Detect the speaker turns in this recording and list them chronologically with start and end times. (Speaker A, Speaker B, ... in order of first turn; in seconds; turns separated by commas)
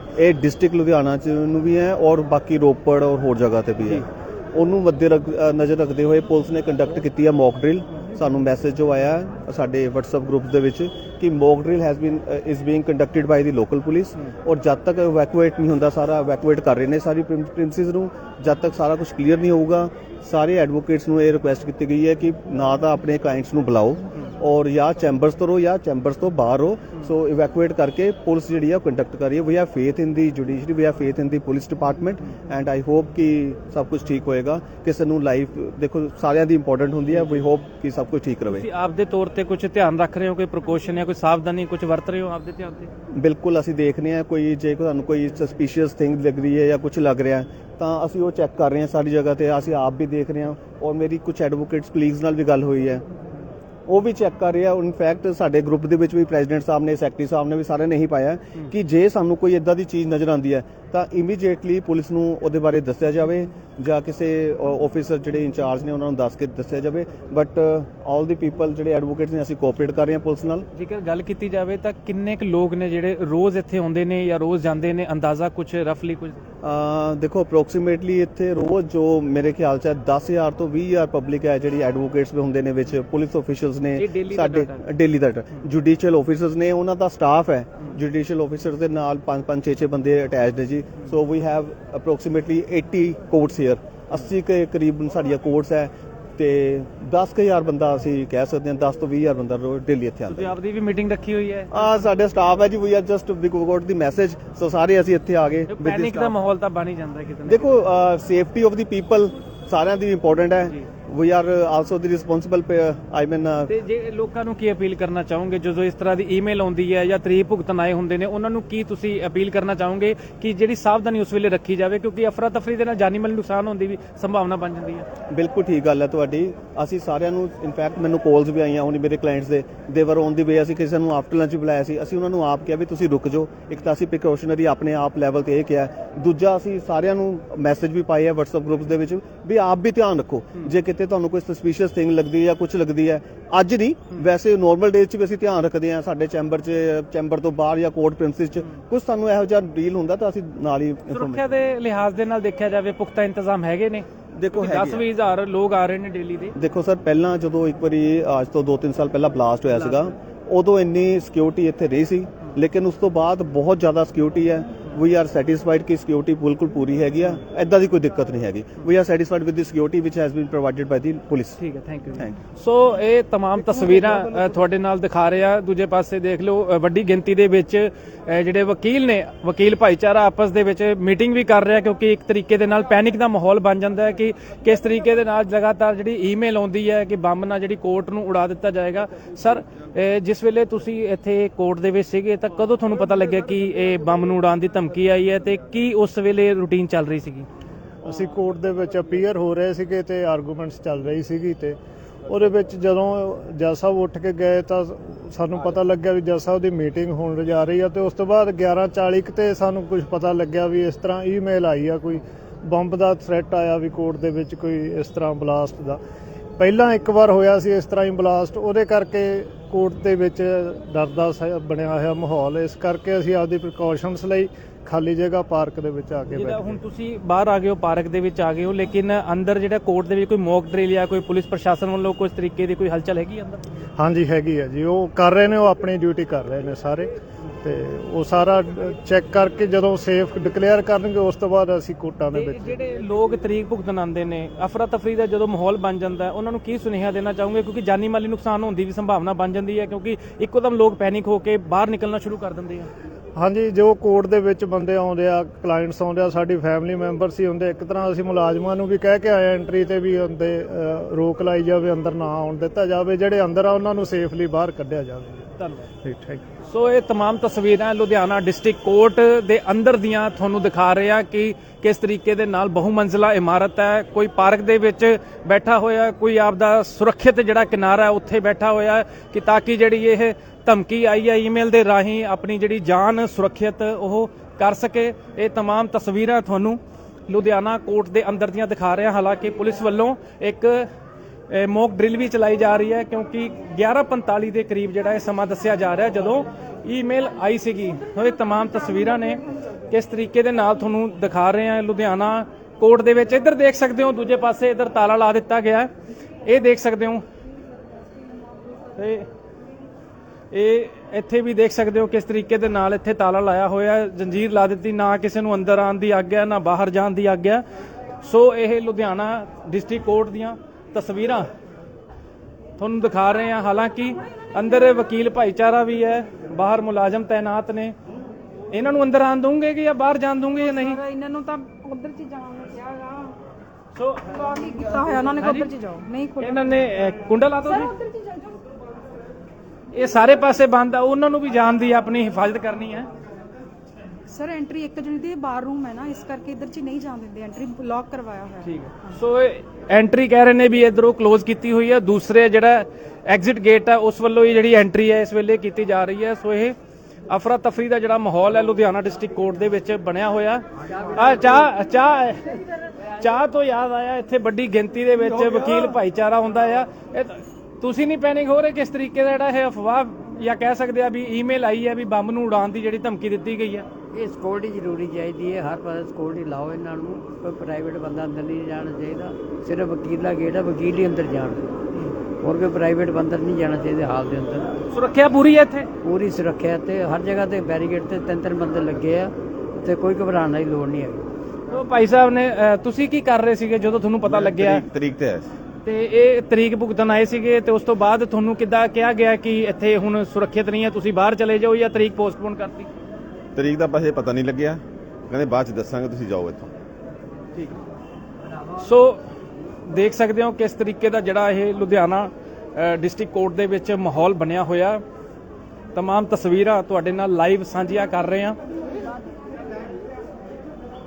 Speaker A: 0.1-38.6, Speaker B: 38.5-42.9, Speaker A: 43.1-53.0, Speaker A: 53.9-70.7, Speaker B: 70.7-76.4, Speaker A: 76.6-100.5, Speaker B: 84.0-84.8, Speaker B: 100.3-102.0, Speaker A: 101.7-106.3, Speaker B: 105.7-107.7, Speaker A: 107.5-113.7, Speaker B: 113.7-125.0, Speaker A: 125.3-151.5, Speaker B: 151.1-156.5, Speaker A: 154.3-155.1, Speaker A: 156.6-171.6, Speaker B: 171.6-197.5, Speaker C: 198.0-216.0, Speaker C: 216.6-226.8, Speaker B: 226.3-233.6, Speaker C: 234.0-237.1, Speaker C: 237.6-242.8, Speaker B: 242.3-252.9, Speaker C: 253.3-265.5, Speaker B: 265.6-265.9, Speaker C: 266.0-266.4, Speaker B: 266.6-290.9, Speaker B: 291.5-305.9, Speaker B: 306.4-307.2, Speaker B: 308.9-309.2, Speaker B: 310.5-317.6, Speaker B: 318.2-321.4, Speaker B: 322.8-327.9, Speaker B: 328.7-331.0, Speaker D: 330.6-333.3, Speaker B: 333.9-334.3, Speaker D: 334.3-336.6, Speaker B: 335.2-335.7, Speaker B: 336.4-337.9, Speaker D: 337.6-338.5, Speaker B: 339.9-343.1, Speaker D: 344.3-349.1, Speaker B: 348.6-356.8, Speaker B: 357.3-362.6, Speaker B: 363.2-373.9, Speaker E: 374.1-381.7, Speaker E: 382.4-384.7, Speaker B: 384.9-385.9, Speaker E: 386.0-391.3, Speaker B: 391.7-394.8, Speaker F: 394.2-395.4, Speaker B: 395.9-402.9, Speaker F: 403.6-406.7, Speaker B: 408.8-409.2, Speaker B: 409.9-415.0, Speaker B: 415.9-418.6